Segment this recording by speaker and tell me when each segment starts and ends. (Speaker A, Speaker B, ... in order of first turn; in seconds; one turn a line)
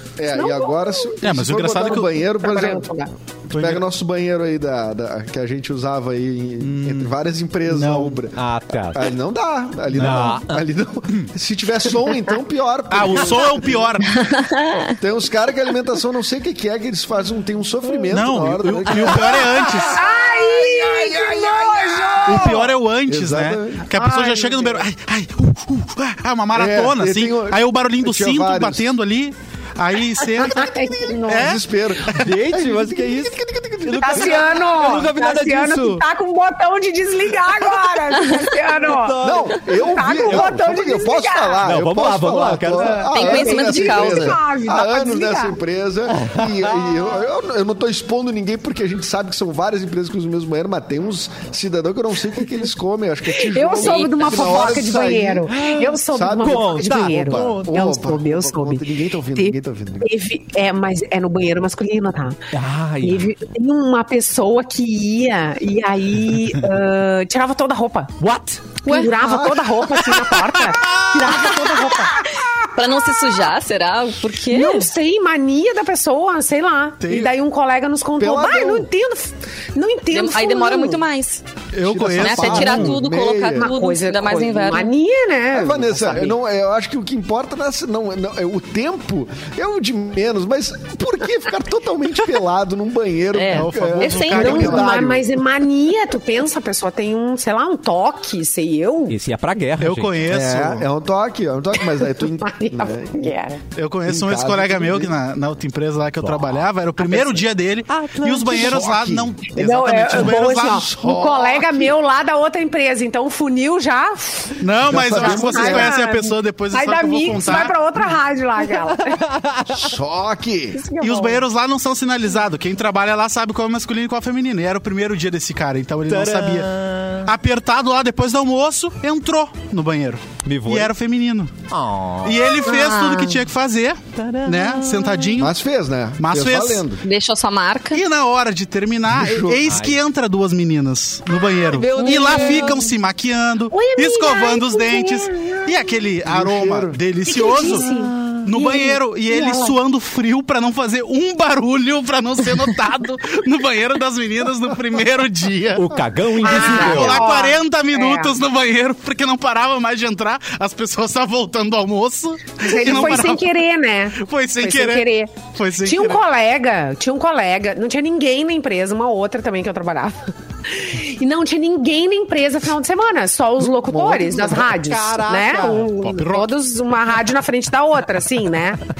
Speaker A: 0.2-2.9
Speaker B: 0.3-1.1
Speaker C: 1.2-2.2
Speaker B: 2.4-3.1
Speaker C: 3.5-3.8
Speaker A: 3.5-13.9
Speaker C: 6.6-7.1
Speaker C: 7.7-8.2
Speaker D: 8.3-9.2
Speaker D: 9.9-10.6
Speaker C: 10.0-10.3
Speaker C: 12.9-14.3
Speaker E: 14.2-14.9
Speaker A: 15.0-23.9
Speaker C: 18.1-20.0
Speaker B: 19.8-22.6
Speaker C: 22.3-30.8
Speaker B: 23.9-24.9
Speaker A: 26.5-28.8
Speaker B: 30.4-31.6
Speaker C: 31.3-31.6
Speaker A: 31.3-35.0
Speaker D: 32.1-36.0
Speaker B: 34.0-41.7
Speaker D: 38.7-39.6
Speaker A: 39.2-55.5
Speaker D: 40.2-40.5
Speaker D: 41.6-43.0
Speaker B: 42.8-45.6
Speaker E: 43.1-44.4
Speaker D: 46.1-47.0
Speaker B: 53.4-68.1
Speaker E: 53.8-54.2
Speaker D: 54.3-54.9
Speaker D: 55.5-57.7
Speaker A: 56.1-60.1
Speaker D: 62.5-63.3
Speaker D: 68.2-69.4
Speaker B: 68.8-72.3
Speaker A: 69.2-69.6
Speaker D: 70.0-71.8
Speaker E: 72.2-74.9
Speaker B: 74.5-81.0
Speaker C: 77.0-77.3
Speaker A: 78.2-78.9
Speaker E: 80.1-81.4
Speaker C: 81.7-83.0
Speaker A: 81.8-83.7
Speaker E: 82.2-84.9
Speaker B: 83.5-86.4
Speaker A: 85.5-95.4
Speaker E: 93.3-94.9
Speaker C: 93.5-95.0
Speaker B: 94.3-99.2
Speaker D: 99.1-100.2
Speaker C: 99.8-100.9
Speaker A: 100.2-103.3
Speaker B: 101.8-103.6
Speaker C: 103.8-111.4
Speaker A: 104.1-105.1
Speaker D: 106.2-106.6
Speaker D: 107.9-108.8
Speaker A: 108.3-109.3
Speaker B: 109.5-119.2
Speaker A: 111.0-111.9
Speaker C: 114.6-117.8
Speaker A: 114.8-116.0
Speaker D: 118.7-120.0
Speaker A: 119.7-120.8
Speaker B: 120.7-121.4
Speaker C: 121.0-126.7
Speaker D: 126.1-127.3
Speaker C: 127.2-131.5
Speaker D: 130.4-130.9
Speaker D: 131.7-132.7
Speaker C: 132.2-135.5
Speaker E: 132.7-133.4
Speaker D: 134.2-135.5
Speaker A: 135.4-137.0
Speaker C: 136.2-136.9
Speaker E: 137.0-138.0
Speaker C: 137.9-147.9
Speaker A: 139.1-139.6
Speaker D: 139.6-140.0
Speaker D: 141.7-142.9
Speaker E: 141.9-142.8
Speaker B: 143.7-145.8
Speaker A: 146.2-147.0
Speaker B: 147.2-149.8
Speaker D: 147.6-148.5
Speaker C: 148.4-163.5
Speaker D: 155.8-157.2
Speaker B: 156.4-158.4
Speaker B: 162.6-178.8
Speaker C: 164.1-166.2
Speaker A: 173.6-174.6
Speaker D: 174.3-176.2
Speaker C: 176.2-176.5